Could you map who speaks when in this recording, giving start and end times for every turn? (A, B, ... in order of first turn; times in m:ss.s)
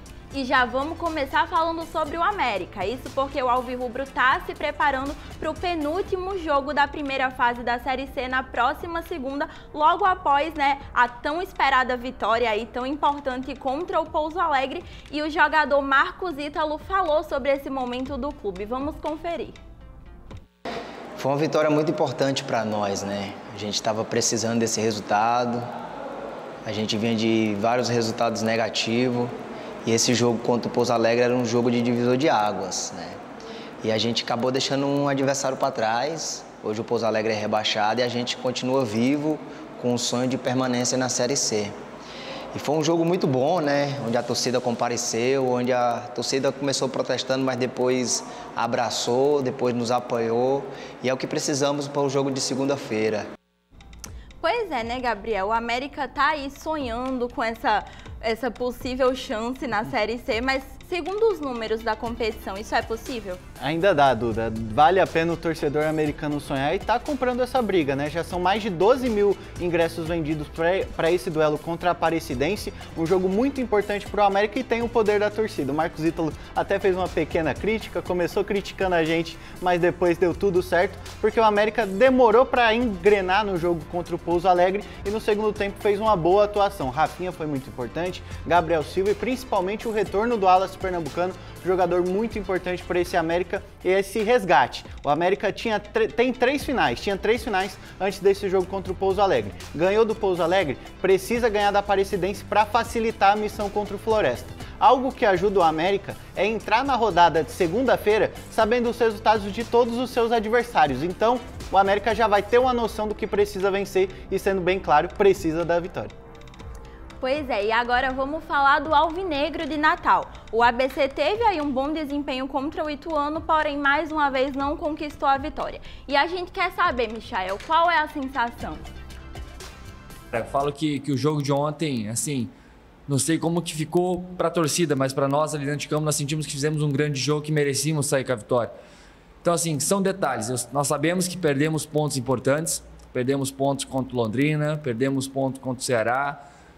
0:00.3-0:19.6 A
0:21.2-0:25.6 B
0:26.6-0:29.3 B
0:29.8-0:33.2 B
0:33.8-0:41.7 B
0:42.5-0:53.3 B
0:54.4-1:03.4 A
1:03.6-1:56.1 C
1:57.2-2:08.8 A
2:10.3-2:12.5 D
2:13.1-2:18.7 D
2:19.4-2:26.4 D